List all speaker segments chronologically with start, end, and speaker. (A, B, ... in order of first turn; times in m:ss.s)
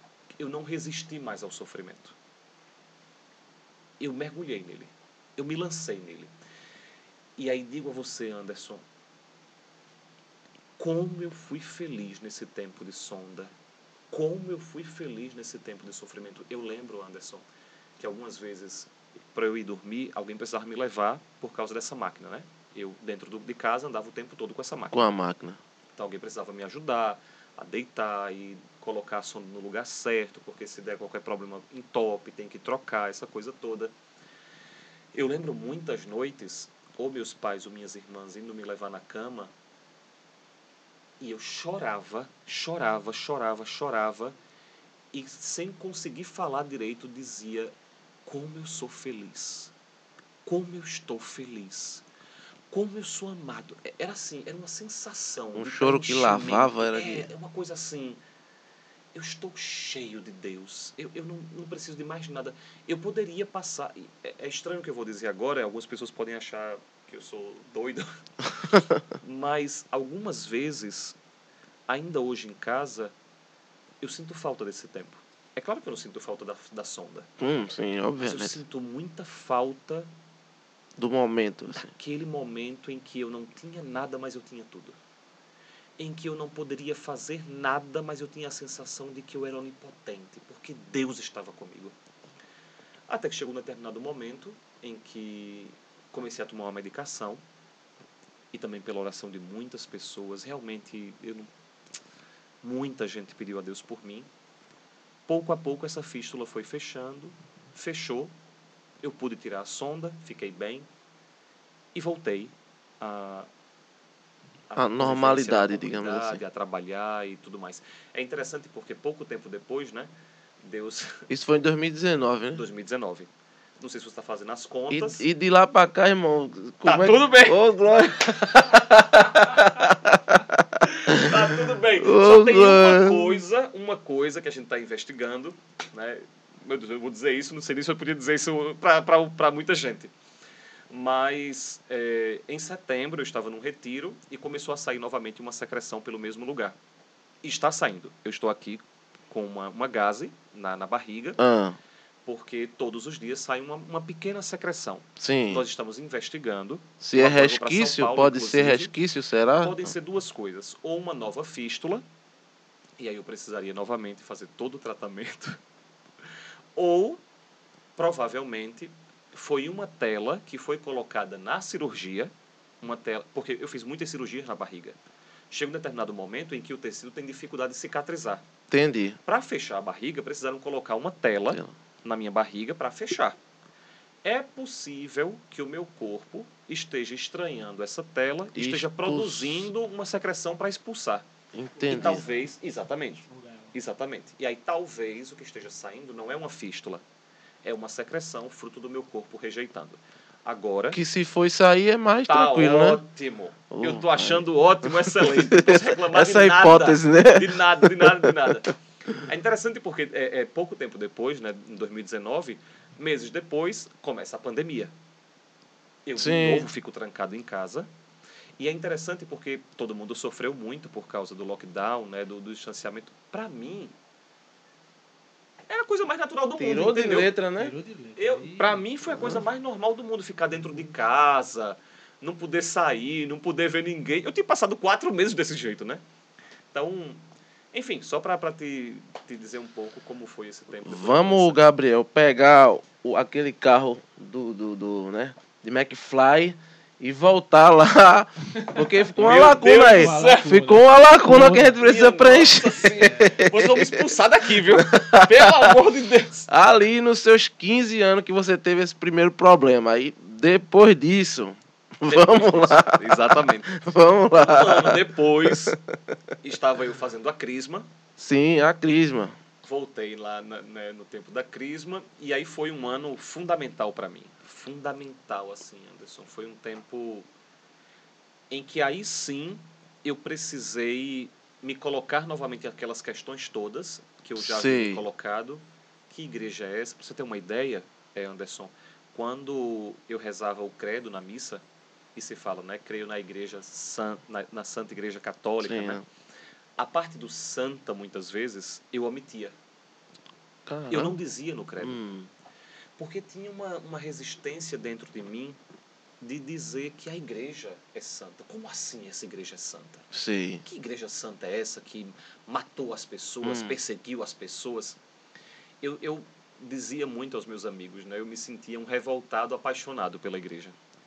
0:00.4-0:02.1 A
0:04.0-0:06.3 A
0:07.4-0:08.8 A
0:10.8-0:13.5 A
0:14.1-0:17.4 A
0:18.0-0:25.1 A
0:24.9-0:25.6 B
0:26.0-0:33.9 A
0:35.1-0:39.5 A
0:41.2-0:44.3 A
0:45.1-0:47.7 A
0:48.2-0:49.7 A
0:50.4-0:52.0 A
0:52.7-0:58.2 A
0:55.5-0:57.3 B
0:59.1-1:08.1 A
1:08.7-1:11.2 A
1:11.9-1:13.1 A
1:14.0-1:17.3 A
1:17.4-1:18.6 B
1:18.2-1:20.1 A
1:21.0-1:21.9 B
1:21.7-1:25.0 A
1:26.0-1:31.9 A
1:33.1-1:37.4 A
1:38.5-1:41.5 A
1:42.6-1:44.3 A
1:45.3-1:48.3 A
1:49.0-1:50.9 A
1:51.9-1:53.5 A
1:54.7-2:00.1 A
1:54.8-1:56.4 B
2:00.6-2:01.3 A
2:01.3-2:02.6 B
2:02.5-2:03.3 A
2:03.8-2:05.2 A
2:04.9-2:13.4 B
2:06.8-2:09.7 A
2:10.8-2:20.1 A
2:20.9-2:26.8 A
2:27.4-2:31.4 A
2:31.4-2:31.8 B
2:32.2-2:38.9 A
2:35.2-2:35.6 B
2:37.0-2:39.9 B
2:39.6-2:42.0 A
2:43.0-2:45.6 A
2:46.8-2:47.2 A
2:48.0-2:52.3 A
2:52.8-2:55.0 A
2:55.5-2:58.4 A
2:58.7-2:59.2 B
2:59.2-3:03.4 A
3:04.2-3:11.2 A
3:08.5-3:09.7 B
3:11.5-3:12.2 B
3:11.9-3:17.0 A
3:11.9-3:12.2 C
3:13.3-3:13.7 C
3:17.6-3:21.0 A
3:20.9-3:23.0 B
3:22.3-3:34.9 A
3:23.7-3:28.5 B
3:36.0-3:37.9 A
3:36.2-3:36.7 B
3:38.6-3:43.9 A
3:45.7-3:47.3 A
3:46.6-3:47.8 B
3:47.6-3:48.8 C
3:48.2-3:56.0 A
3:56.7-3:57.2 A
3:57.7-4:01.6 A
4:00.8-4:14.0 B
4:08.8-4:11.8 C
4:09.1-4:10.6 A
4:11.4-4:16.5 A
4:12.8-4:13.3 C
4:14.7-4:15.7 B
4:16.5-4:25.8 B
4:22.1-4:23.7 A
4:24.4-4:25.8 A
4:26.4-4:27.9 A
4:28.2-4:29.4 B
4:29.6-4:37.3 A
4:38.5-4:51.6 A
4:44.4-4:45.0 B
4:52.1-4:56.0 A
4:55.6-4:56.0 B
4:56.8-4:59.5 A
5:00.6-5:01.2 B
5:00.9-5:02.0 A
5:01.8-5:02.3 B
5:03.0-5:05.6 A
5:06.2-5:10.0 A
5:10.1-5:10.6 B
5:10.6-5:15.0 A
5:13.4-5:13.7 B
5:15.8-5:20.8 A